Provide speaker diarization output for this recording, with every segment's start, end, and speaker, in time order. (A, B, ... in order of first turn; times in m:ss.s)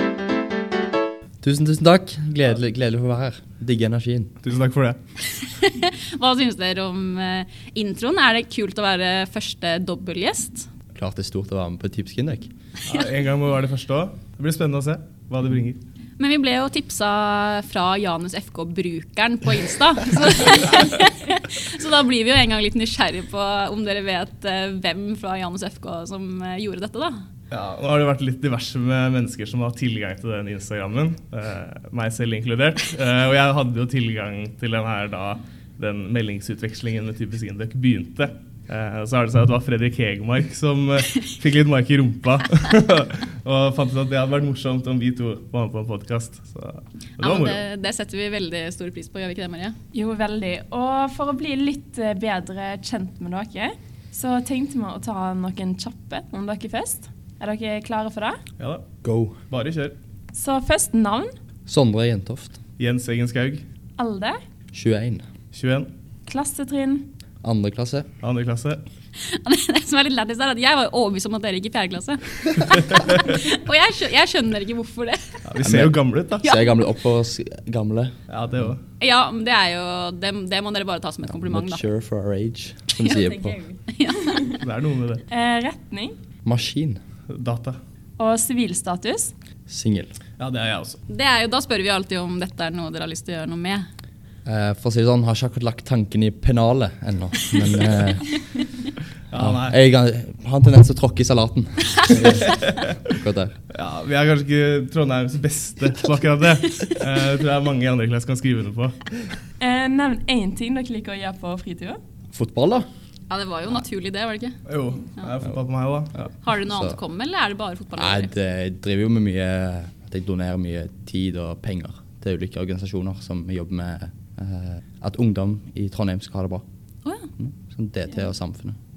0:01.4-0:04.3 A
0:04.4-0:05.0 B
0:05.3-0:10.7 C
0:10.9-0:12.5 A
0:12.8-0:15.8 B
0:16.2-0:27.2 C
0:27.5-0:47.6 B
0:47.2-0:49.8 C
0:49.9-0:58.4 D
0:58.6-0:58.8 B
0:59.0-0:59.4 A
0:59.5-0:59.9 B
1:00.3-1:01.3 D
1:01.7-1:02.6 A
1:02.8-1:03.6 B
1:04.0-1:04.4 D
1:04.7-1:05.2 A
1:05.5-1:05.9 B
1:06.3-1:07.1 D
1:07.4-1:08.1 A
1:08.2-1:08.8 B
1:09.2-1:15.4 C
1:15.4-1:16.4 B
1:15.6-1:18.7 A
1:16.4-1:16.7 C
1:18.3-1:18.8 B
1:19.0-1:21.8 C
1:21.3-1:23.6 A
1:23.0-1:24.6 C
1:24.5-1:25.2 B
1:25.3-1:26.1 D
1:26.4-1:27.0 A
1:27.3-1:27.8 B
1:28.2-1:29.3 D
1:29.7-1:30.2 A
1:30.4-1:31.0 B
1:31.1-1:33.9 C
1:34.4-1:38.3 A
1:39.3-1:39.8 B
1:39.3-1:43.5 A
1:42.2-1:42.9 B
1:43.7-1:49.3 B
1:49.6-1:52.0 D
1:52.3-1:52.9 A
1:53.3-1:54.6 C
1:54.6-1:56.3 B
1:56.4-1:58.3 C
1:56.7-1:57.0 A
1:58.0-2:06.6 A
2:07.4-2:08.8 A